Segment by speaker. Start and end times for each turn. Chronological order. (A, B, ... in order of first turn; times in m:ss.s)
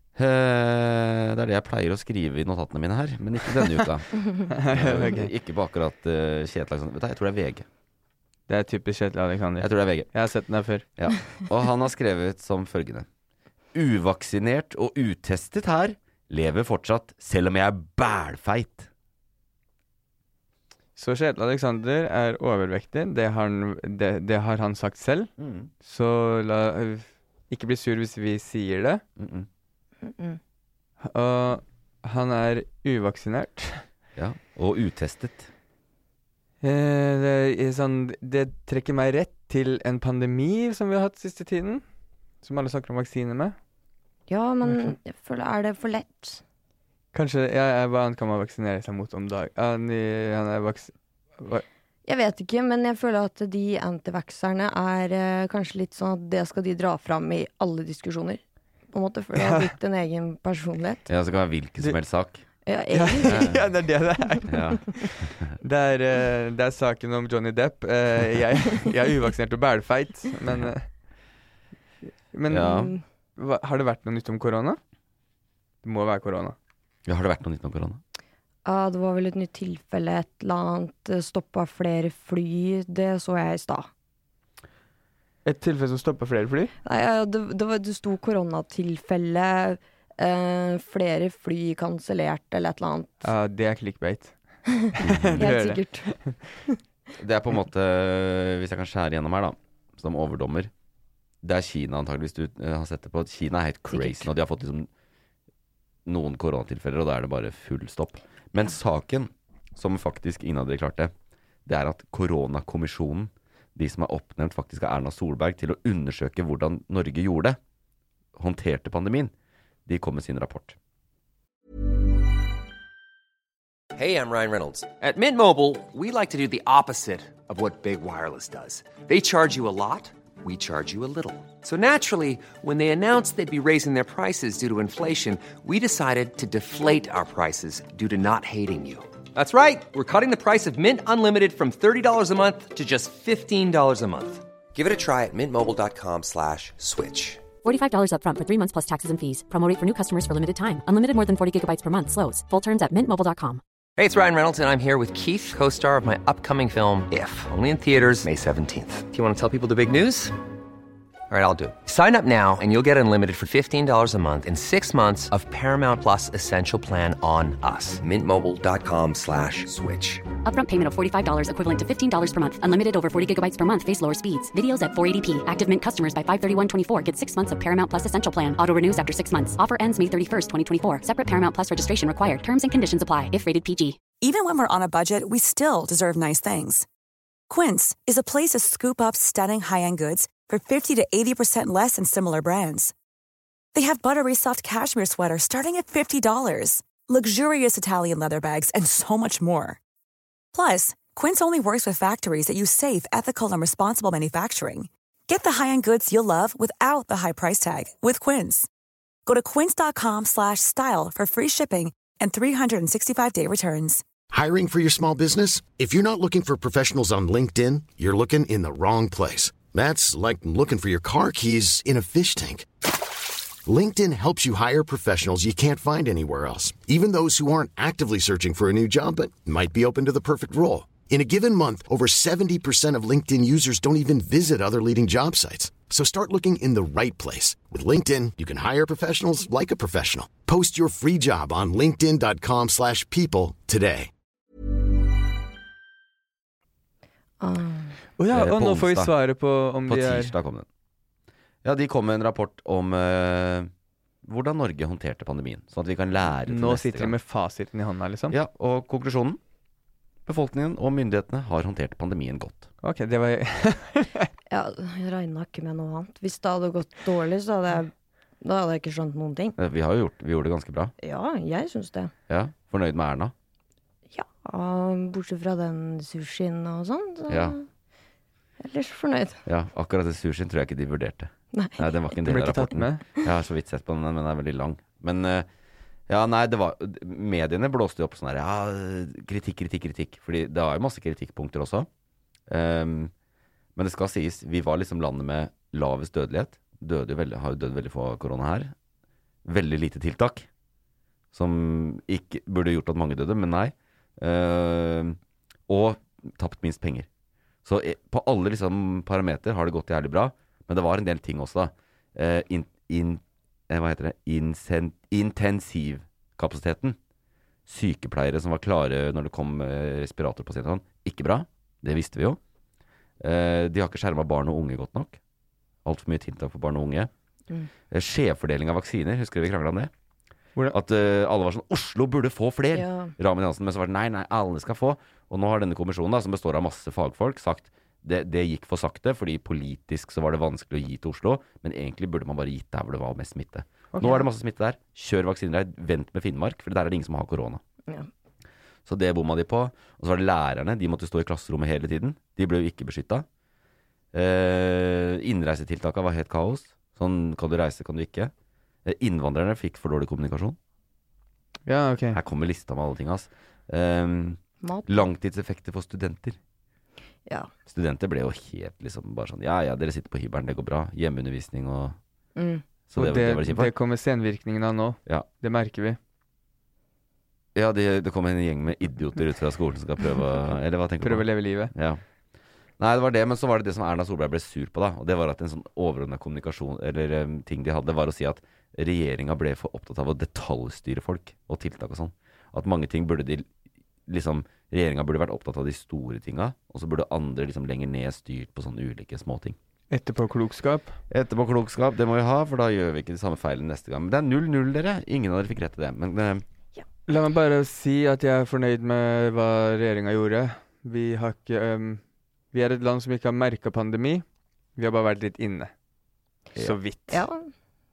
0:00.2-0:07.7 A
0:04.5-0:05.3 B
0:08.5-0:10.8 B
0:09.6-0:10.1 A
0:11.0-0:13.1 A
0:13.7-0:18.9 A
0:21.0-0:25.3 B
0:25.4-0:25.7 A
0:25.8-0:29.0 B
0:29.2-0:29.5 A
0:30.0-0:30.4 C
0:31.0-0:33.8 B
0:34.2-0:35.5 A
0:36.6-0:41.8 B
0:42.4-0:43.6 B
0:44.3-0:46.4 C
0:44.7-0:45.0 B
0:47.1-0:51.6 B
0:52.1-0:58.4 C
0:58.9-1:01.0 C
0:59.4-0:59.7 B
1:01.1-1:02.4 A
1:02.7-1:03.5 C
1:02.9-1:10.9 B
1:03.2-1:03.6 A
1:04.5-1:05.6 A
1:10.5-1:10.7 A
1:12.3-1:14.8 B
1:12.5-1:12.9 A
1:12.7-1:13.0 C
1:15.8-1:16.6 B
1:17.1-1:18.0 A
1:18.6-1:23.9 C
1:25.4-1:26.7 B
1:26.8-1:33.3 C
1:33.2-1:34.4 B
1:35.0-1:36.4 B
1:35.0-1:35.5 A
1:35.4-1:36.2 C
1:37.2-1:40.7 A
1:41.4-1:44.9 A
1:43.9-1:44.3 C
1:46.1-1:51.1 A
1:51.7-1:57.6 A
1:58.4-1:59.3 A
1:59.9-2:00.8 A
2:03.9-2:27.5 D
2:27.6-2:33.6 E
2:34.0-2:40.4 D
2:41.3-2:50.3 D
2:50.4-3:04.0 E
3:04.2-3:06.9 F
3:07.5-3:12.9 F
3:13.7-3:19.8 F
3:20.5-3:28.7 F
3:29.3-3:34.0 F
3:34.3-3:42.7 G
3:43.6-4:04.1 G
4:07.4-4:07.9 C
4:08.2-4:10.3 B
4:08.3-4:09.1 A
4:09.9-4:10.7 A
4:11.6-4:13.7 A
4:14.2-4:17.2 A
4:16.5-4:18.4 B
4:18.3-4:19.4 A
4:20.3-4:22.7 A
4:22.8-4:24.3 B
4:24.5-4:27.9 C
4:28.4-4:29.6 C
4:29.6-4:30.9 A
4:31.0-4:32.1 C
4:32.3-4:33.3 A
4:34.1-4:37.6 C
4:37.3-4:37.6 A
4:38.6-4:39.4 C
4:39.5-4:45.5 A
4:41.5-4:41.8 C
4:42.2-4:43.0 B
4:46.1-4:51.9 A
4:52.5-4:53.1 A
4:53.8-4:58.7 A
4:59.4-5:00.5 A
5:01.3-5:07.1 A
5:07.6-5:17.0 A
5:17.7-5:22.4 A
5:23.2-5:25.2 A
5:25.8-5:27.1 A
5:27.9-5:29.9 A
5:30.7-5:47.6 A
5:32.7-5:33.1 C
5:48.9-5:53.3 A
5:54.1-5:58.3 A
5:58.8-6:00.6 A
6:01.7-6:02.2 B
6:02.1-6:06.4 A
6:04.6-6:05.1 C
6:07.7-6:12.0 A
6:12.4-6:12.6 C
6:12.9-6:13.7 A
6:13.0-6:16.0 B
6:17.6-6:22.0 A
6:21.0-6:21.7 B
6:22.8-6:33.5 A
6:34.1-6:39.6 A
6:39.9-6:41.0 B
6:41.1-6:46.4 A
6:47.1-6:52.0 B
6:52.5-6:54.2 B
6:54.8-6:55.7 B
6:56.6-6:57.3 B
6:57.1-6:57.5 C